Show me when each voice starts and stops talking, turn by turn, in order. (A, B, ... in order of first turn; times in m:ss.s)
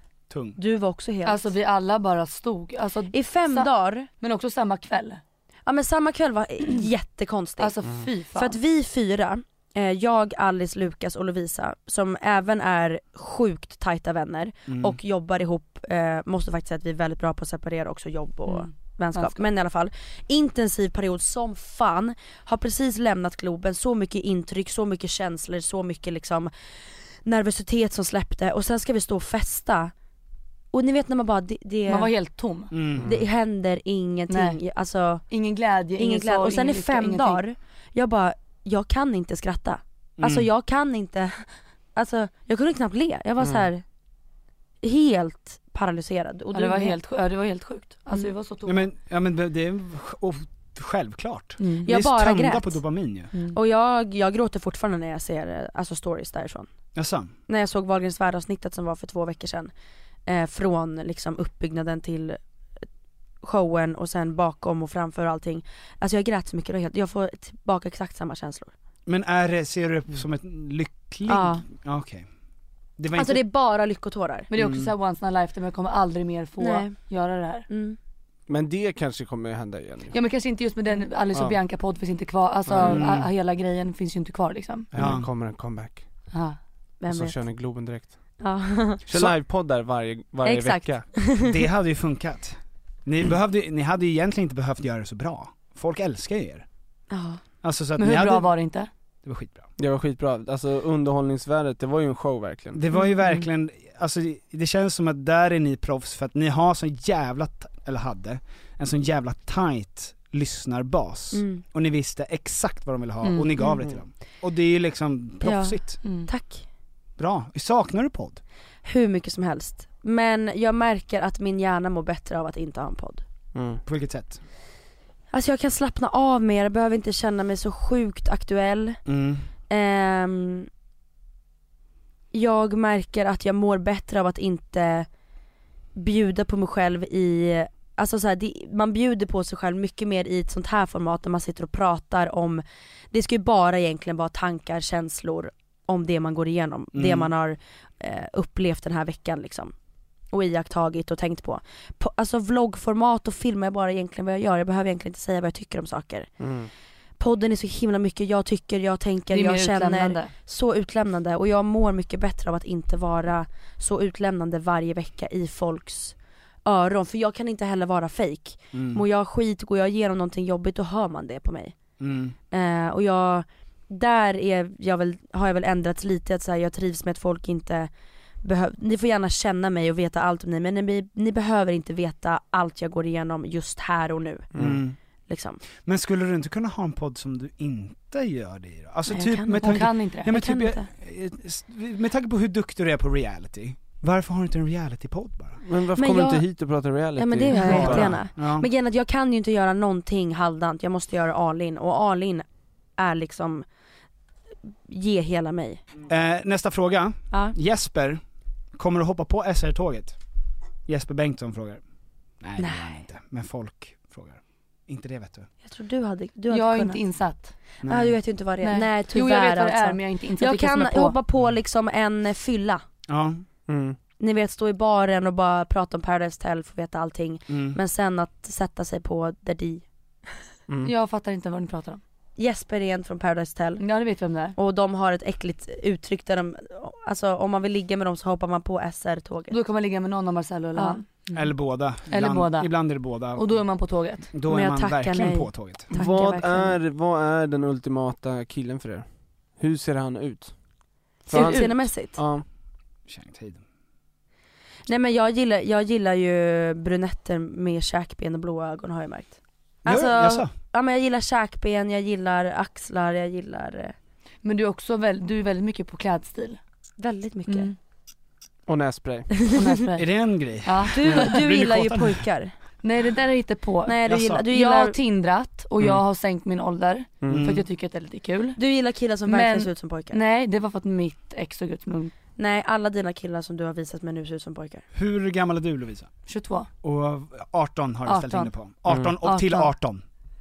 0:00.3-0:00.6 A
0:00.6-0:01.5 B
0:01.2-0:05.2 C
0:03.1-0:04.1 B
0:05.7-0:26.5 B
0:07.6-0:08.6 C
0:14.7-0:15.0 A
0:18.5-0:19.4 C
0:27.2-0:29.9 B
0:30.7-0:32.1 B
0:31.9-0:32.7 C
0:32.7-0:33.1 A
0:33.0-0:33.2 D
0:33.0-0:35.3 B
0:34.3-0:34.6 C
0:35.3-0:37.4 C
0:36.0-0:43.8 B
0:40.2-0:40.5 A
0:43.4-0:43.7 D
0:44.8-0:47.0 B
0:46.5-0:48.9 C
0:48.6-0:53.3 A
0:51.6-0:51.9 C
0:51.8-0:52.8 B
0:53.3-0:53.6 C
0:53.5-0:56.7 B
0:57.0-0:57.3 A
0:57.5-0:59.7 B
1:00.3-1:02.4 B
1:03.4-1:08.7 B
1:09.1-1:12.3 A
1:11.3-1:11.6 B
1:13.0-1:13.4 A
1:13.1-1:14.5 B
1:14.5-1:17.7 C
1:14.5-1:14.9 A
1:16.6-1:17.1 B
1:17.7-1:18.0 B
1:18.5-1:20.2 D
1:20.1-1:24.9 C
1:22.7-1:23.1 D
1:22.8-1:23.3 A
1:24.9-1:26.1 D
1:25.0-1:25.3 A
1:26.3-1:26.6 C
1:27.0-1:27.4 B
1:27.1-1:28.4 D
1:28.4-1:29.0 B
1:29.1-1:31.1 D
1:30.4-1:31.5 B
1:31.4-1:36.6 A
1:37.1-1:37.4 B
1:37.6-1:38.6 A
1:38.0-1:38.9 C
1:39.2-1:39.7 A
1:39.8-1:42.8 D
1:42.8-1:56.0 A
1:42.9-1:43.4 C
1:51.3-1:51.6 B
1:53.2-1:53.8 C
1:55.4-1:56.6 B
1:56.0-1:56.3 C
1:57.2-1:58.4 A
1:58.8-2:03.2 B
2:03.5-2:03.8 D
2:03.8-2:04.4 A
2:05.3-2:09.0 B
2:09.1-2:09.5 A
2:09.7-2:10.7 B
2:12.3-2:15.1 B
2:16.0-2:29.7 B
2:26.9-2:27.3 A
2:30.3-2:36.3 B
2:36.4-2:36.7 D
2:37.2-2:51.8 B
2:39.3-2:40.3 C
2:48.7-2:49.0 A
2:52.0-2:52.4 A
2:52.5-2:57.9 B
2:58.4-3:04.5 B
3:04.5-3:04.8 D
3:04.6-3:05.0 A
3:05.3-3:05.6 B
3:05.8-3:15.6 A
3:09.1-3:10.9 B
3:09.6-3:10.3 C
3:15.6-3:18.2 D
3:16.0-3:16.4 B
3:17.2-3:22.4 B
3:17.6-3:18.7 A
3:23.0-3:23.6 B
3:24.9-3:25.8 B
3:26.1-3:28.2 A
3:27.3-3:27.6 B
3:28.8-3:30.2 A
3:30.9-3:31.8 A
3:32.4-3:35.5 A
3:32.6-3:33.1 B
3:35.6-3:37.0 B
3:36.5-3:37.6 C
3:37.8-3:38.2 A
3:37.9-3:42.8 B
3:38.6-3:41.2 C
3:43.1-3:43.4 A
3:43.7-3:44.0 D
3:44.2-3:49.8 B
3:47.5-3:47.8 A
3:50.8-3:52.0 C
3:52.4-3:53.9 B
3:53.8-3:54.6 C
3:54.5-3:59.6 B
3:59.5-4:01.5 C
4:00.8-4:01.0 B
4:01.3-4:03.5 A
4:02.1-4:02.7 C
4:03.3-4:04.3 C
4:04.3-4:05.9 A
4:04.5-4:06.8 B
4:05.9-4:10.6 D
4:11.3-4:12.4 D
4:11.3-4:11.8 C
4:11.3-4:12.2 B
4:13.1-4:13.6 A
4:14.9-4:23.9 B
4:19.8-4:20.5 A
4:24.4-4:26.6 C
4:27.0-4:27.7 B
4:27.5-4:27.8 C
4:28.7-4:29.4 D
4:29.5-4:30.1 C
4:30.0-4:32.3 A
4:30.6-4:31.2 C
4:30.9-4:32.5 B
4:32.8-4:38.6 C
4:33.9-4:35.0 B
4:34.1-4:34.4 A
4:37.2-4:37.5 D
4:37.3-4:37.6 A
4:38.6-4:40.2 B
4:39.3-4:42.1 C
4:42.4-4:44.8 B
4:44.9-4:46.1 A
4:46.3-4:46.7 C
4:46.8-4:50.0 A
4:48.0-4:48.5 C
4:48.9-4:49.2 D
4:49.2-4:49.7 C